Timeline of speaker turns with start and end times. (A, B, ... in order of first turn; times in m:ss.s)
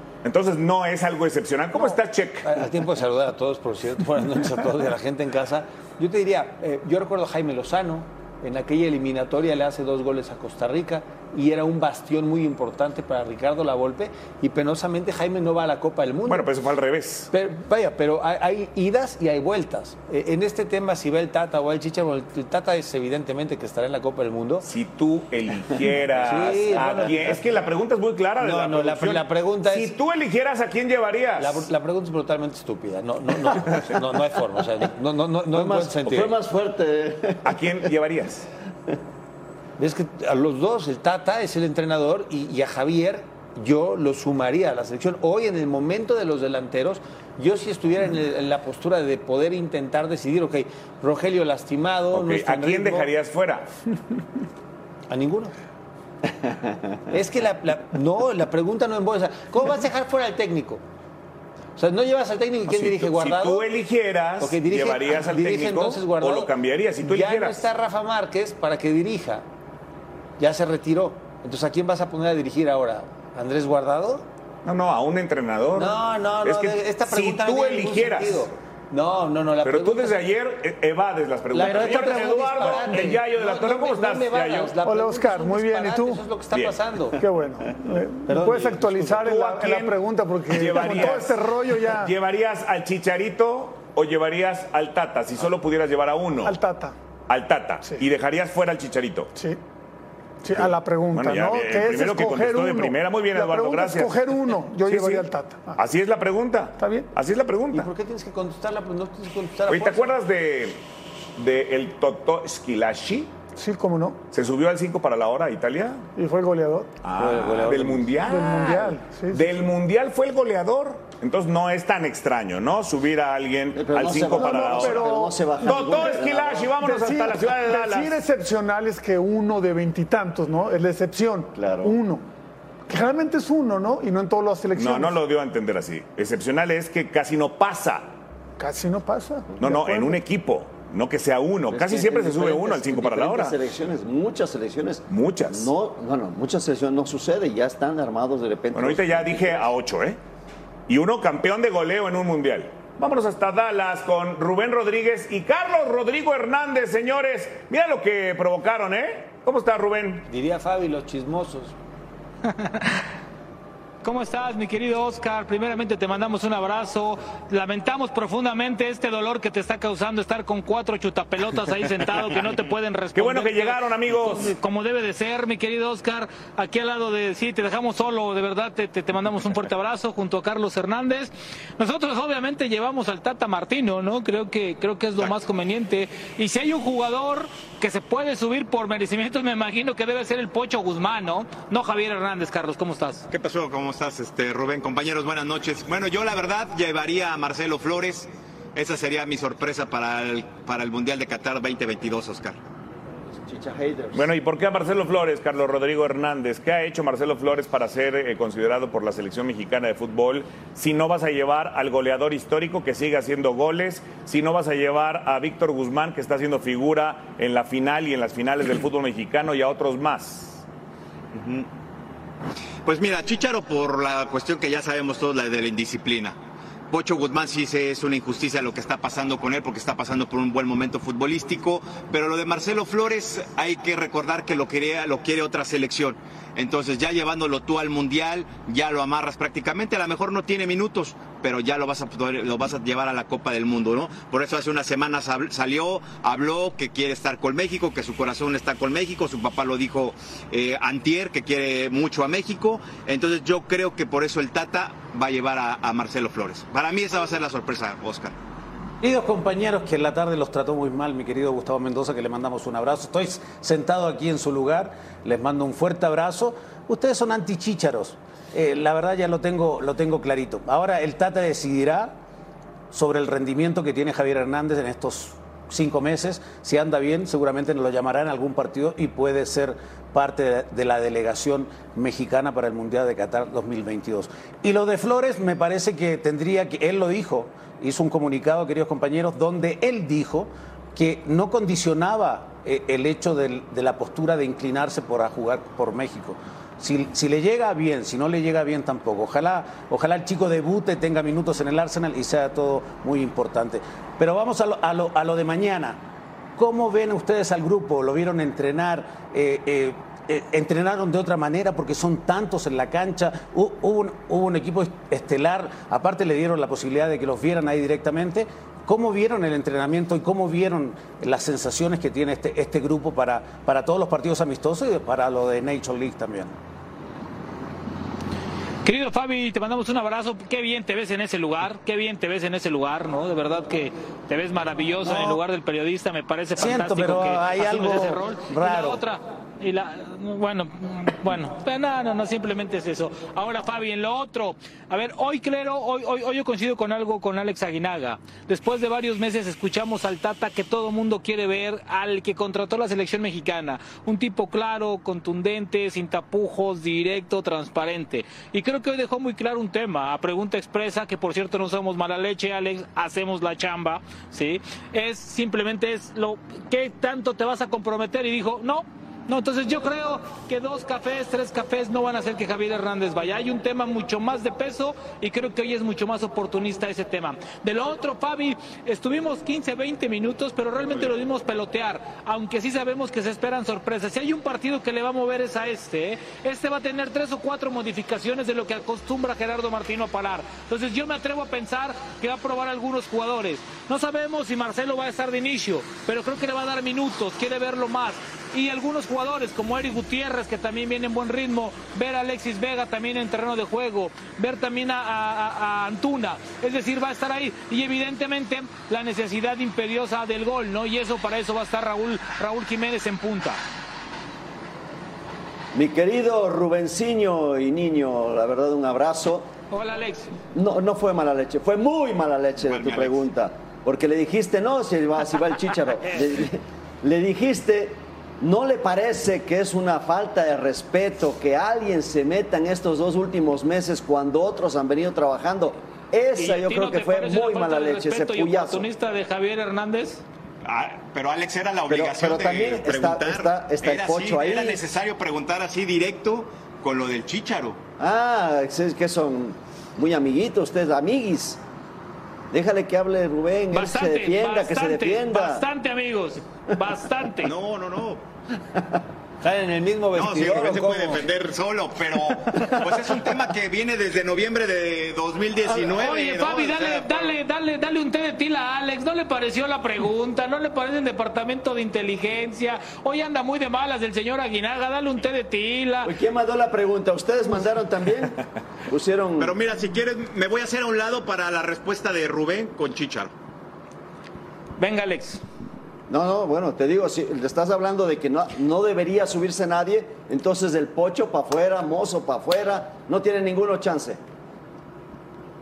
0:00.2-0:02.6 A
0:01.7-0:16.5 B
0:16.2-0:17.3 A
0:17.3-0:24.7 B
0:24.6-0:31.6 A
0:26.1-0:27.7 B
0:28.4-0:29.9 B
0:31.4-0:36.3 B
0:35.5-0:37.9 C
0:37.4-0:38.4 A
0:39.8-0:53.1 B
0:52.1-0:53.7 A
0:55.1-0:55.5 B
0:57.1-1:00.8 B
1:01.8-1:03.7 B
1:02.6-1:07.6 A
1:04.4-1:09.4 B
1:10.4-1:14.2 B
1:14.6-1:18.4 A
1:15.7-1:20.4 B
1:19.6-1:24.7 A
1:21.5-1:27.2 B
1:24.8-1:26.3 D
1:27.2-1:32.2 D
1:28.3-1:29.3 B
1:29.2-1:36.6 A
1:36.4-1:37.0 D
1:37.3-1:39.3 A
1:40.4-1:45.8 D
1:40.5-1:47.9 A
1:46.8-1:47.1 D
1:47.7-1:50.2 B
1:49.7-1:50.8 A
1:51.4-1:53.3 A
1:53.5-1:54.2 D
1:54.3-1:56.0 A
1:56.1-1:56.9 D
1:57.0-2:08.2 A
1:57.2-1:58.1 E
1:58.2-1:59.6 D
2:03.7-2:06.7 C
2:04.2-2:12.2 D
2:11.5-2:12.0 C
2:12.9-2:15.2 D
2:14.7-2:18.1 A
2:18.6-2:20.2 D
2:19.6-2:23.6 A
2:21.7-2:29.7 C
2:25.1-2:25.7 A
2:28.7-2:30.2 A
2:30.9-2:40.2 A
2:40.3-2:41.7 B
2:42.5-2:42.9 F
2:44.0-3:13.2 F
2:53.1-2:54.5 A
3:13.3-3:22.6 G
3:23.4-3:24.3 C
3:24.1-3:40.6 A
3:41.3-3:41.7 G
3:42.8-3:46.4 G
3:46.9-4:18.4 G
4:19.0-4:32.2 E
4:32.9-5:06.0 E
5:06.6-5:26.6 E
5:28.8-6:53.6 F
5:35.0-5:35.4 E
5:36.6-5:39.0 E
6:55.7-6:59.5 C
6:59.7-7:00.4 F
7:00.5-7:18.8 C
7:02.6-7:03.2 G
7:16.4-7:20.2 F
7:20.6-7:27.8 G
7:21.9-7:24.9 C
7:28.0-7:31.6 C
7:32.5-7:35.6 C
7:33.7-7:37.5 F
7:37.4-7:38.2 G
7:39.4-7:41.3 B
7:40.1-7:47.4 G
7:42.6-7:43.3 C
7:45.9-7:56.1 F
7:56.0-7:59.6 C
7:59.4-8:03.3 G
8:04.8-8:05.4 F
8:06.1-8:14.2 C